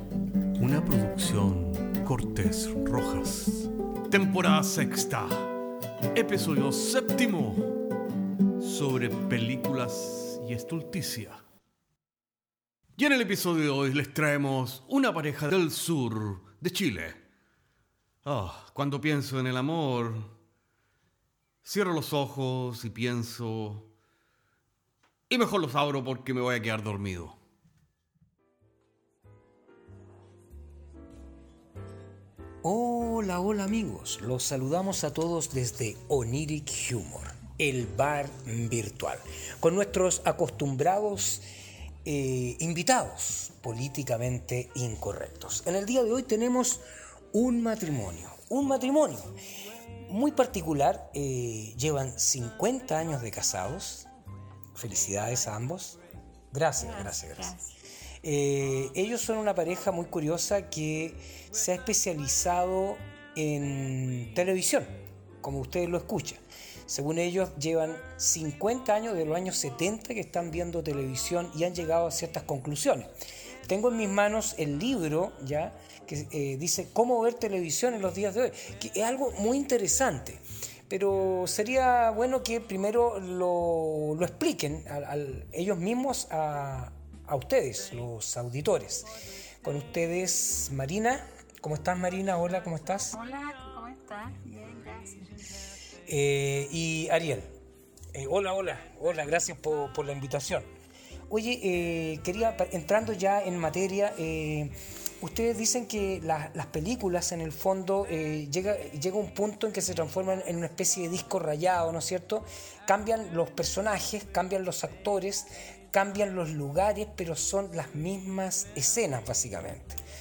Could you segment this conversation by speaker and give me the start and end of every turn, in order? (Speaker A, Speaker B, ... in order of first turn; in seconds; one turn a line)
Speaker A: 0.6-5.5
Speaker A: 6.1-7.7
Speaker A: 8.6-11.4
Speaker A: 13.0-17.2
Speaker A: 18.2-20.3
Speaker A: 21.6-23.9
Speaker A: 25.3-27.4
Speaker B: 32.6-41.5
Speaker B: 42.0-49.3
Speaker B: 50.1-54.1
Speaker B: 54.8-56.0
Speaker B: 56.5-57.5
Speaker C: 56.8-57.8
Speaker B: 58.2-64.9
Speaker B: 65.4-73.1
Speaker B: 73.7-89.1
Speaker B: 89.6-93.2
Speaker C: 93.1-95.3
Speaker B: 96.1-97.5
Speaker B: 98.1-100.7
Speaker B: 101.3-120.0